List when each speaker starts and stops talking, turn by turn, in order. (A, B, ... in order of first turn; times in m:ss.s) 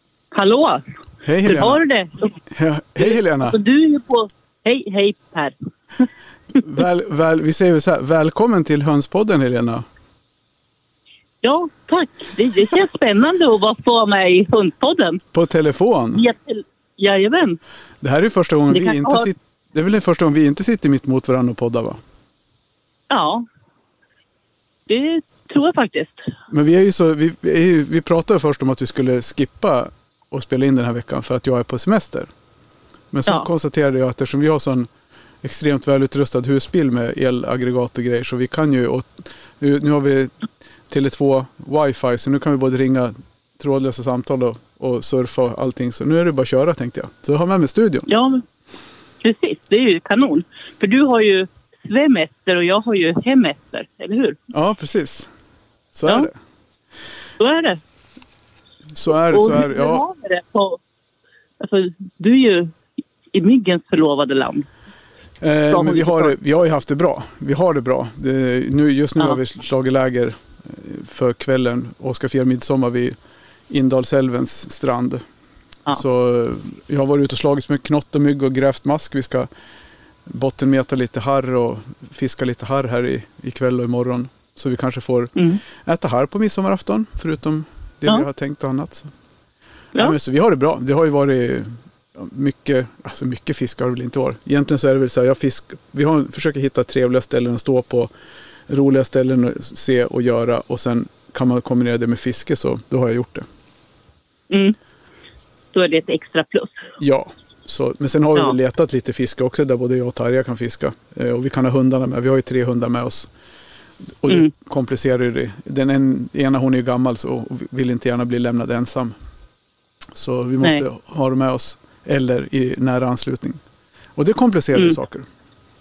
0:00.3-0:00.8 A
0:01.2-0:01.8 B
0:01.4-0:02.4 A
0:02.5-0:03.6 B
0:03.0-0:05.5 A
0:06.6-0:09.8 B
0:11.4-0:15.2 A
0:15.3-0:16.2 B
0:16.1-0:17.6 A
0:18.0-0:22.0 B
0:18.7-0:19.3 A
0:23.1-0:23.4 A
0:24.9-0:26.2 A
0:26.5-0:32.3 B
0:33.1-0:34.9 B
0:35.4-0:40.3 B
0:40.9-0:48.1 B
0:48.1-0:48.4 A
0:49.2-0:54.4 A
0:54.5-0:55.3 B
0:55.9-0:56.3 B
0:57.4-0:57.8 A
0:58.9-1:00.0 B
0:59.3-1:00.8 A
1:01.6-1:02.7 A
1:03.3-1:04.7 A
1:05.4-1:13.2 B
1:05.7-1:06.4 A
1:13.7-1:15.2 B
1:15.9-1:19.5 B
1:20.2-1:29.1 B
1:25.4-1:25.6 A
1:29.9-1:38.1 B
1:38.7-1:43.5 B
1:44.5-1:44.8 A
1:45.7-1:46.8 A
1:47.0-1:53.3 B
1:54.2-1:59.1 B
2:00.1-2:03.6 B
2:04.2-2:05.3 B